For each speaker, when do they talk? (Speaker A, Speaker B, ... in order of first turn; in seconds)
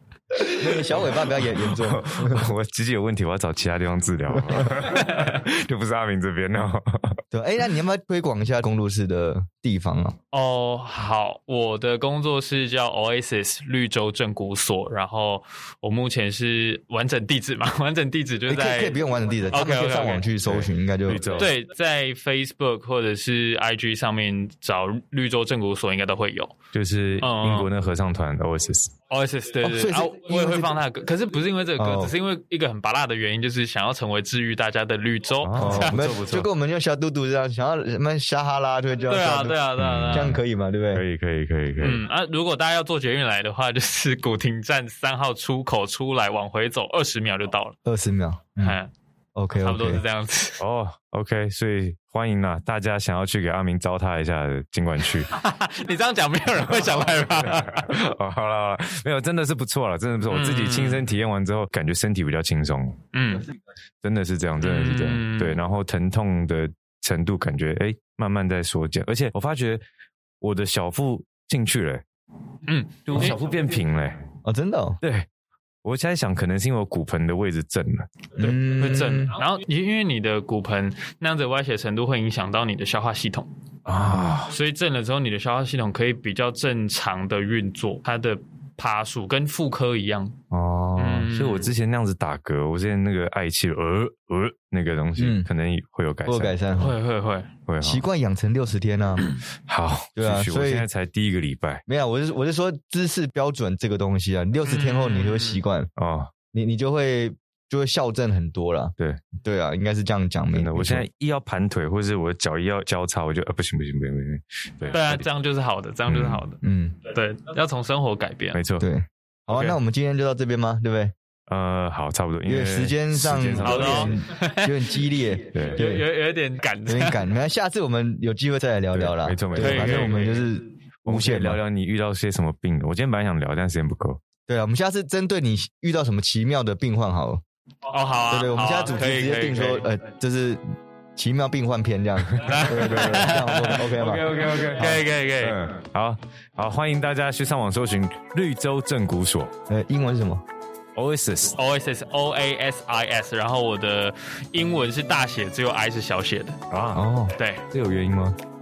Speaker A: 0.4-2.5, 7.3-10.2, 18.5-21.4, 29.6-30.8, 31.8-32.1, 35.5-39.6, 40.1-41.0, 47.9-48.8, 49.4-50.0, 74.4-75.0, 78.4-79.3, 95.2-95.5, 96.3-97.0, 97.8-99.3, 100.2-100.9, 101.9-105.9, 106.5-111.1, 116.6-117.0, 118.8-121.1, 122.5-126.1, 126.9-131.6, 134.5-137.4, 138.3-140.6, 141.2-145.0, 149.7-150.4, 156.9-157.3
Speaker B: 0.4-7.2, 20.5-21.5, 26.7-28.9, 35.4-36.5, 39.8-42.0, 50.6-55.3, 56.9-63.0, 64.0-69.8, 70.4-72.0, 73.1-74.2, 75.0-75.3, 75.8-78.1, 83.9-84.5, 90.5-96.6, 97.7-98.0, 99.7-101.8, 106.0-106.3, 110.5-115.2, 116.1-116.4, 118.5-118.9, 121.5-124.2, 125.5-125.8, 128.9-130.2, 131.1-134.2, 142.4-149.5, 151.0-151.6, 156.7-157.1, 157.7-158.4
Speaker C: 4.9-5.3, 10.3-20.3, 21.3-26.6, 27.2-27.7, 29.1-36.1, 39.1-40.4, 41.8-47.8, 48.6-48.9, 49.6-50.6, 55.3-58.0, 60.3-61.1, 63.1-63.5, 64.6-65.6, 72.7-73.4, 78.4-83.5, 84.4-90.4, 91.0-91.7, 96.8-97.5, 104.7-105.6, 114.9-118.6, 123.6-125.0, 125.7-127.2, 129.6-130.5, 137.9-139.9, 142.4-143.9, 144.6-145.6, 151.6-156.6, 157.3-157.6